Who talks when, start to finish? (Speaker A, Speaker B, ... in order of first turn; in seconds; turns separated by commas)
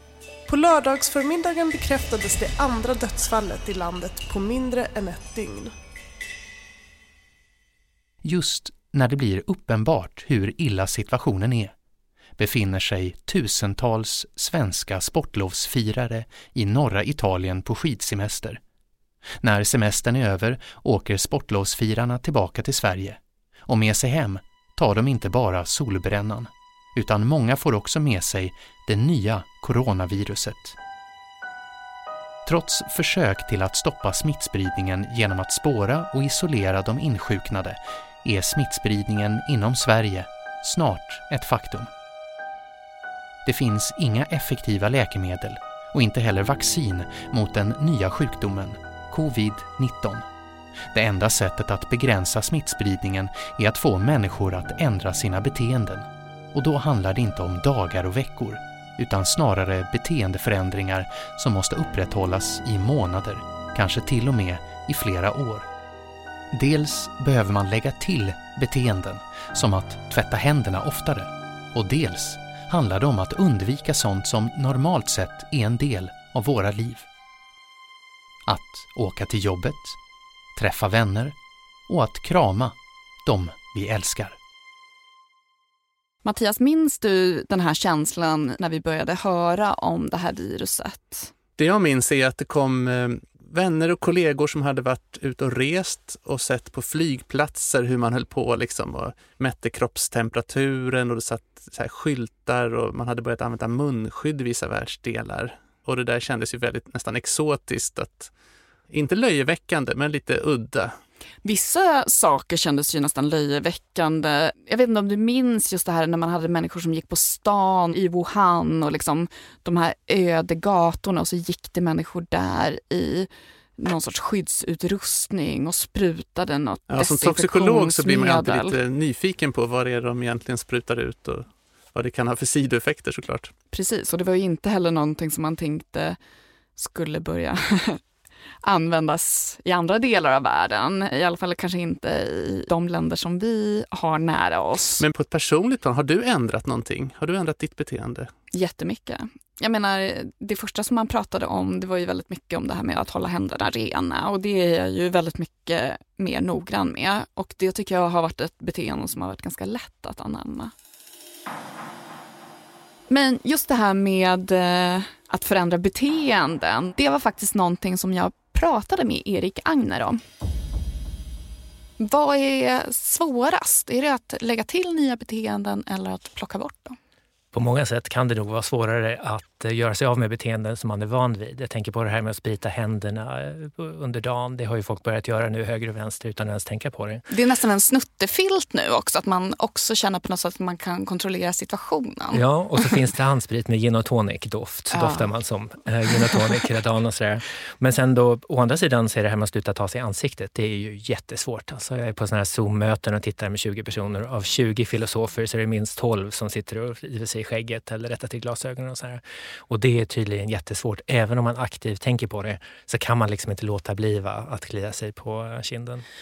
Speaker A: 0.5-5.7, Speaker B: 8.2-11.7, Speaker B: 12.4-18.6, Speaker B: 19.4-30.8, Speaker B: 32.5-41.9, Speaker B: 43.4-50.2, Speaker B: 50.9-65.7, Speaker B: 66.5-77.1, Speaker B: 78.5-80.0, Speaker B: 80.5-81.3, Speaker B: 81.9-84.4, Speaker C: 86.2-91.3, Speaker D: 91.6-108.3, Speaker D: 108.9-111.0, Speaker C: 111.4-128.8, Speaker D: 126.9-133.5, Speaker C: 133.7-136.2, Speaker C: 136.8-138.0, Speaker C: 138.6-145.0, Speaker D: 145.0-148.3, Speaker C: 148.5-160.7, Speaker C: 163.1-170.2, Speaker C: 172.0-177.0, Speaker E: 177.5-187.2, Speaker C: 187.3-193.0, Speaker E: 192.3-216.0, Speaker C: 194.9-195.3